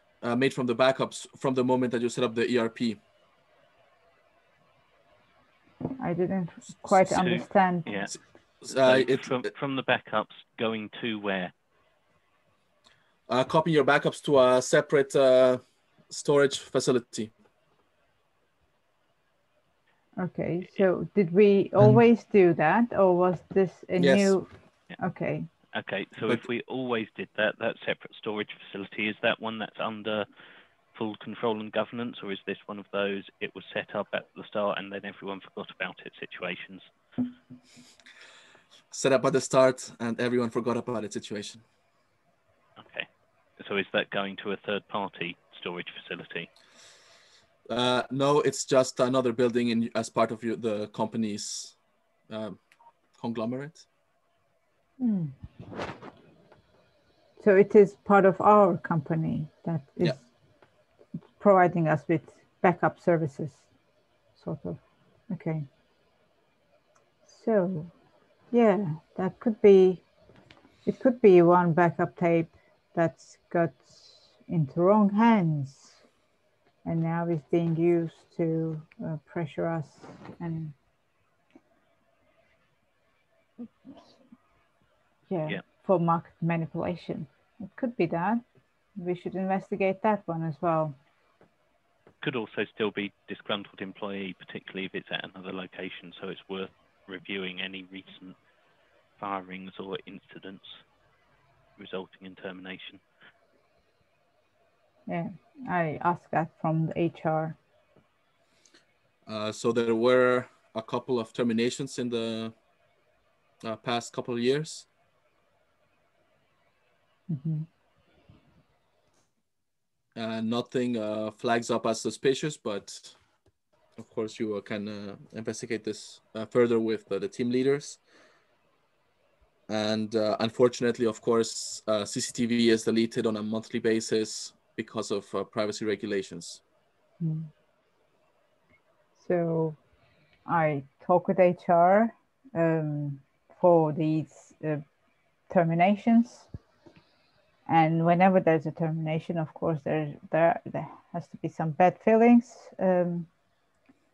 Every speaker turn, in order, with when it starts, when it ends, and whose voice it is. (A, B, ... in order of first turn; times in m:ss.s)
0:00.2-0:03.0 A
0:06.0-0:07.9 B
0:07.1-0:08.2 C
0:08.6-0:09.5 A
0:08.7-0:11.5 C
0:13.3-0:17.3 A
0:20.2-0:24.5 B
0:24.0-0:24.4 A
0:25.0-0:25.5 B
0:25.7-0:30.3 C
0:30.9-0:36.8 C
0:38.9-0:41.6 A
0:42.8-0:43.1 C
0:43.6-0:46.5 C
0:47.7-0:51.8 A
0:52.3-0:52.6 A
0:53.2-0:53.8 A
0:55.0-0:55.3 B
0:57.4-1:00.2 B
1:01.4-1:03.7 B
1:04.4-1:05.6 B
1:07.2-1:07.9 B
1:08.5-1:10.0 B
1:10.8-1:16.0 B
1:16.8-1:20.7 B
1:25.3-1:28.4 B
1:29.0-1:31.0 B
1:32.2-1:38.4 C
1:39.2-1:40.8 C
1:41.8-1:43.0 C
1:45.1-1:47.6 B
1:49.2-1:52.5 A
1:53.6-1:54.9 A
1:57.3-1:57.7 B
2:00.1-2:03.2 A
2:04.0-2:08.0 A
2:09.7-2:16.6 A
2:17.2-2:17.5 B
2:19.2-2:19.8 B
2:20.4-2:24.8 B
2:25.5-2:26.5 B
2:27.7-2:33.3 B